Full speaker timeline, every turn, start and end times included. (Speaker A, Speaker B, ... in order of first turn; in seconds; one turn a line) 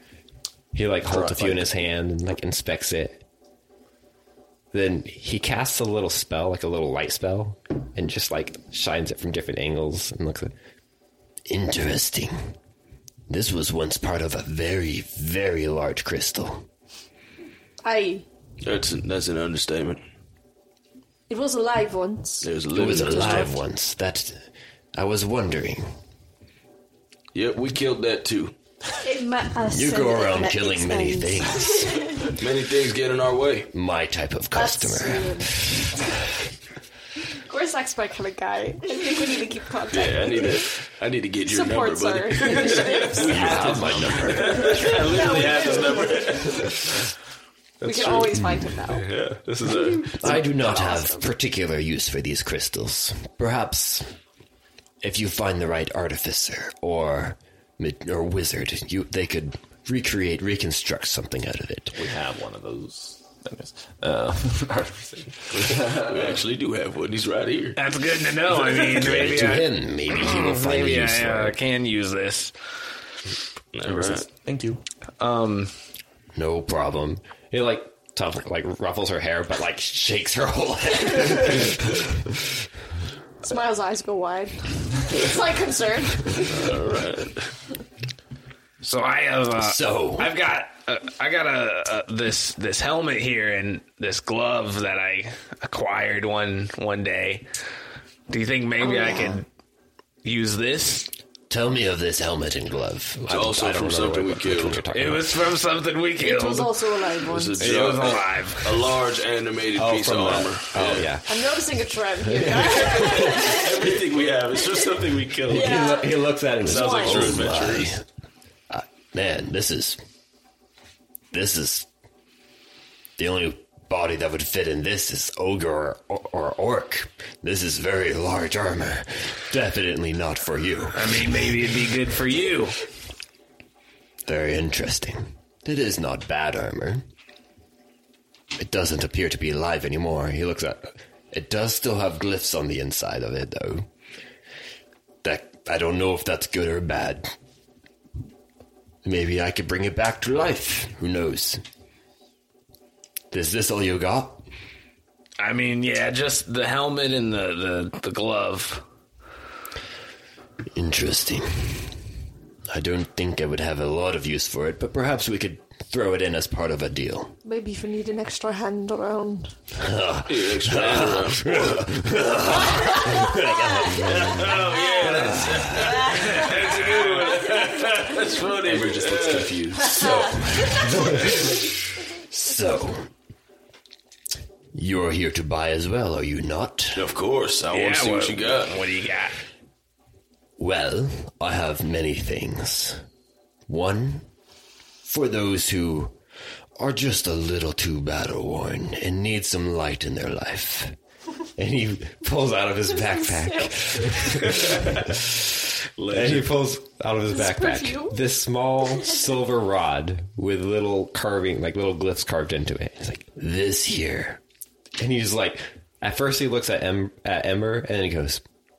Speaker A: 0.7-3.2
Speaker B: 1.1-1.7
Speaker A: 4.7-10.5
Speaker A: 11.5-12.3
Speaker A: 13.3-16.7
Speaker C: 17.8-18.2
Speaker D: 18.6-20.0
Speaker C: 21.3-23.5
Speaker D: 22.4-23.5
Speaker A: 22.7-25.9
Speaker D: 27.3-28.6
Speaker E: 29.0-32.2
Speaker A: 29.6-32.1
Speaker D: 32.2-33.7
Speaker A: 33.7-36.1
Speaker C: 34.5-35.6
Speaker C: 37.5-40.7
Speaker D: 39.9-46.9
Speaker C: 41.5-43.7
Speaker B: 42.8-46.1
Speaker A: 43.2-44.9
Speaker C: 44.5-46.3
Speaker C: 47.8-49.1
Speaker D: 47.8-48.3
Speaker A: 48.3-48.7
Speaker D: 48.9-50.4
Speaker A: 50.2-54.1
Speaker C: 50.2-51.3
Speaker A: 55.0-62.1
Speaker B: 62.0-66.4
Speaker D: 65.6-67.8
Speaker F: 67.8-72.5
Speaker A: 68.9-71.6
Speaker D: 73.7-74.3
Speaker B: 73.8-74.8
Speaker F: 75.2-75.7
Speaker A: 76.3-82.5
Speaker C: 83.4-86.5
Speaker D: 86.4-87.5
Speaker F: 88.8-97.5
Speaker A: 89.6-90.3
Speaker F: 98.3-99.5
Speaker C: 98.8-99.4
Speaker F: 100.2-101.1
Speaker A: 101.5-105.4
Speaker D: 103.3-104.8
Speaker F: 104.9-106.8
Speaker C: 106.2-107.7
Speaker D: 107.3-111.1
Speaker F: 107.6-109.0
Speaker A: 109.8-111.6
Speaker C: 111.3-113.9
Speaker A: 112.2-113.5
Speaker D: 112.7-116.0
Speaker A: 115.5-118.1
Speaker C: 115.5-116.1
Speaker E: 115.5-116.0
Speaker D: 116.6-118.0
Speaker C: 116.6-117.5
Speaker A: 118.7-120.0
Speaker A: 121.3-121.9
Speaker A: 123.2-131.6
Speaker F: 130.9-132.8
Speaker A: 134.3-137.1
Speaker A: 138.6-143.9
Speaker A: 145.2-147.3
Speaker A: 149.0-151.6
Speaker A: 153.3-154.4
Speaker F: 155.4-158.8
Speaker A: 160.7-162.0
Speaker A: 162.7-167.4
Speaker C: 167.4-169.6
Speaker A: 169.7-176.1
Speaker D: 170.3-172.1
Speaker C: 172.8-173.4
Speaker D: 173.9-179.7
Speaker C: 174.6-176.5
Speaker F: 176.2-177.4
Speaker B: 178.6-180.4
Speaker A: 179.9-183.1
Speaker A: 184.7-187.1
Speaker D: 186.9-188.8
Speaker F: 187.7-189.4
Speaker A: 190.6-193.0
Speaker A: 193.7-194.3
Speaker A: 195.1-196.2
Speaker A: 196.8-200.9
Speaker A: 201.6-205.4
Speaker D: 204.6-205.1
Speaker D: 206.0-206.5
Speaker A: 206.1-214.4
Speaker C: 207.3-208.1
Speaker A: 215.0-218.4